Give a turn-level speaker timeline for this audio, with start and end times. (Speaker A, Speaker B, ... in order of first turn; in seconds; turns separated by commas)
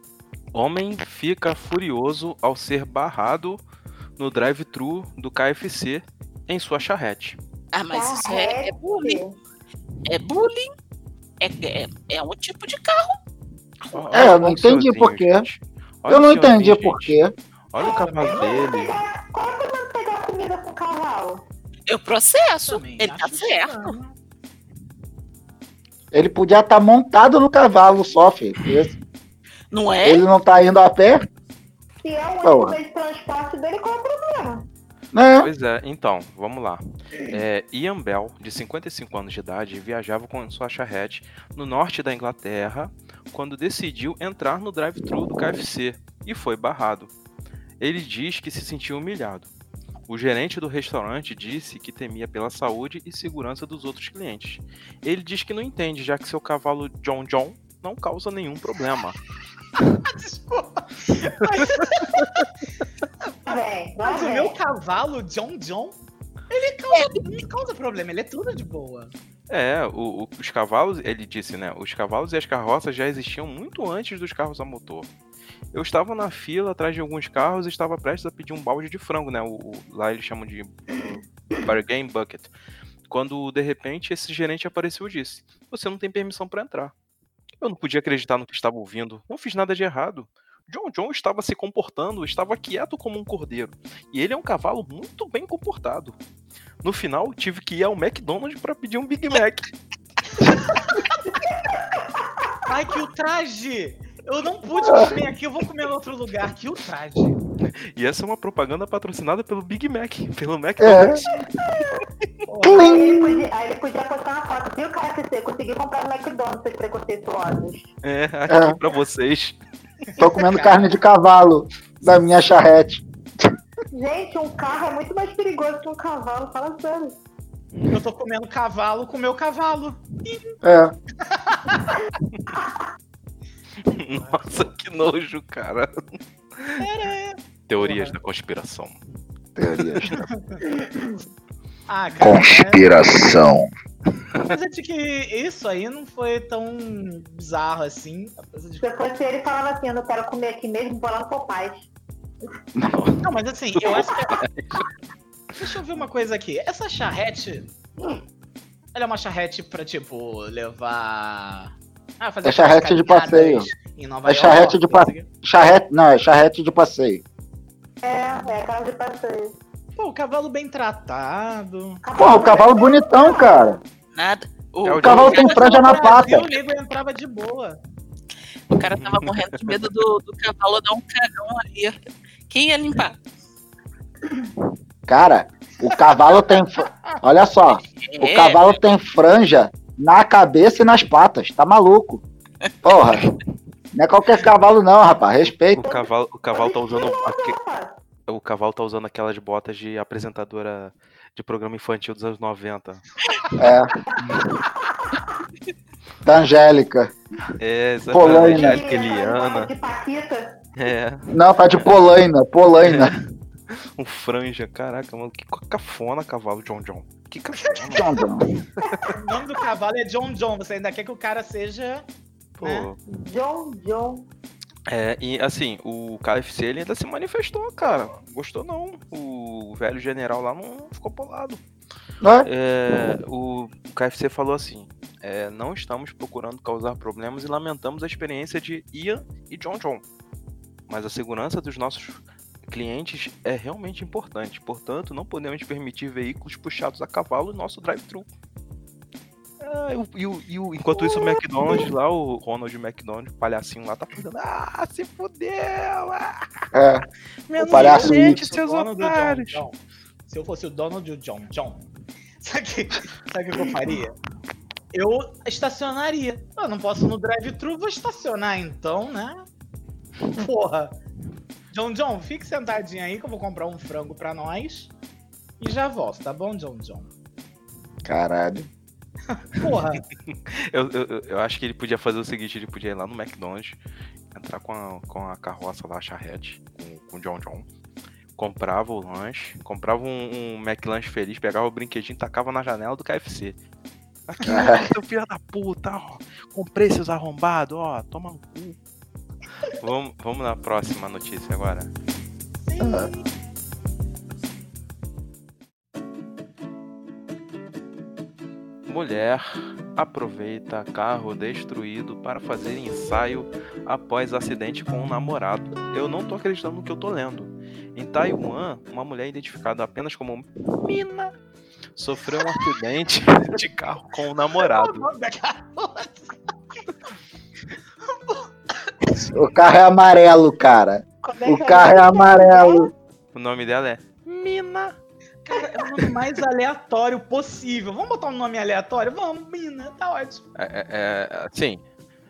Speaker A: 0.5-3.6, Speaker A: 4.2-7.4, Speaker B: 7.7-9.2, Speaker C: 7.9-9.4, Speaker B: 10.1-10.7, Speaker B: 11.4-13.2, Speaker A: 13.9-17.2, Speaker D: 14.1-15.5, Speaker D: 16.1-17.3, Speaker A: 17.7-18.9, Speaker C: 17.8-21.4, Speaker E: 18.0-18.6, Speaker B: 21.9-24.0, Speaker E: 22.7-24.2, Speaker D: 26.1-28.9, Speaker B: 29.7-30.3, Speaker D: 30.1-31.3, Speaker C: 32.0-34.7, Speaker D: 32.4-32.8, Speaker D: 35.1-35.5, Speaker A: 35.4-47.1, Speaker A: 47.8-49.5, Speaker A: 50.1-59.2, Speaker E: 60.0-62.5, Speaker A: 61.4-61.8, Speaker C: 63.5-64.5, Speaker E: 63.5-66.0, Speaker E: 66.5-69.1, Speaker B: 66.9-67.2, Speaker A: 69.5-75.1, Speaker A: 75.7-82.5, Speaker A: 83.1-86.9, Speaker A: 87.6-96.2, Speaker A: 96.8-99.7, Speaker E: 102.7-107.4, Speaker D: 104.8-105.2, Speaker A: 107.7-111.4, Speaker D: 110.8-111.2, Speaker E: 112.5-113.2, Speaker D: 112.6-113.5, Speaker C: 112.7-117.9, Speaker A: 118.0-119.6, Speaker D: 118.5-118.8, Speaker E: 120.2-120.9, Speaker D: 120.2-123.0, Speaker C: 123.9-127.2, Speaker E: 127.9-130.5, Speaker D: 130.6-130.9, Speaker E: 131.2-131.9, Speaker A: 133.9-136.0, Speaker E: 134.1-134.7, Speaker A: 136.6-136.9, Speaker E: 136.8-138.2, Speaker A: 137.7-139.0, Speaker D: 139.6-140.3, Speaker A: 139.9-140.3, Speaker E: 140.2-140.6, Speaker C: 140.6-141.2, Speaker E: 141.9-142.8, Speaker D: 142.2-143.7, Speaker E: 144.4-148.9, Speaker C: 148.8-151.8, Speaker A: 152.8-154.9, Speaker E: 153.2-154.4, Speaker E: 155.6-157.7, Speaker E: 158.9-165.3, Speaker D: 162.4-163.7, Speaker D: 164.3-167.2, Speaker C: 168.0-169.6, Speaker E: 170.0-172.0, Speaker C: 172.0-173.8, Speaker D: 172.2-173.8, Speaker B: 174.2-176.6, Speaker A: 174.8-175.6, Speaker D: 175.0-176.5, Speaker E: 175.4-177.8, Speaker B: 178.7-182.0, Speaker A: 179.0-179.8, Speaker B: 182.5-183.2, Speaker D: 185.1-192.2, Speaker B: 188.0-188.8, Speaker D: 192.8-193.2, Speaker D: 193.9-195.9, Speaker A: 195.8-197.6, Speaker C: 196.5-198.0, Speaker A: 198.3-203.1, Speaker D: 203.6-204.1, Speaker D: 206.2-207.1, Speaker A: 207.6-209.7, Speaker D: 208.1-208.8, Speaker C: 208.2-210.6, Speaker A: 210.8-211.9, Speaker D: 211.3-213.1, Speaker A: 212.8-218.2, Speaker E: 217.6-217.9, Speaker D: 217.8-218.5, Speaker C: 218.8-219.2, Speaker A: 218.9-219.2, Speaker E: 219.2-222.1, Speaker A: 222.6-223.0, Speaker E: 222.6-222.9, Speaker C: 223.1-224.3, Speaker A: 224.9-231.6, Speaker D: 232.2-232.5, Speaker A: 232.4-240.0, Speaker A: 240.9-248.3, Speaker A: 249.6-256.5, Speaker D: 256.7-257.1, Speaker A: 257.5-259.6, Speaker E: 257.5-261.8, Speaker D: 257.7-258.4, Speaker E: 262.4-264.1, Speaker E: 264.9-269.5, Speaker E: 270.3-271.0, Speaker E: 271.7-274.9, Speaker E: 275.6-277.1, Speaker D: 278.0-278.7, Speaker E: 279.3-280.1, Speaker A: 280.3-283.8, Speaker A: 284.3-287.7, Speaker A: 288.4-293.6, Speaker A: 294.3-298.8, Speaker D: 294.4-294.9, Speaker A: 299.6-301.9, Speaker E: 302.6-303.3, Speaker D: 302.8-303.1, Speaker A: 308.9-321.3, Speaker A: 322.0-325.1, Speaker E: 324.5-326.3, Speaker E: 328.1-328.5, Speaker D: 329.3-332.9, Speaker C: 331.2-332.9, Speaker A: 333.3-335.0, Speaker E: 335.4-340.5, Speaker A: 340.6-341.8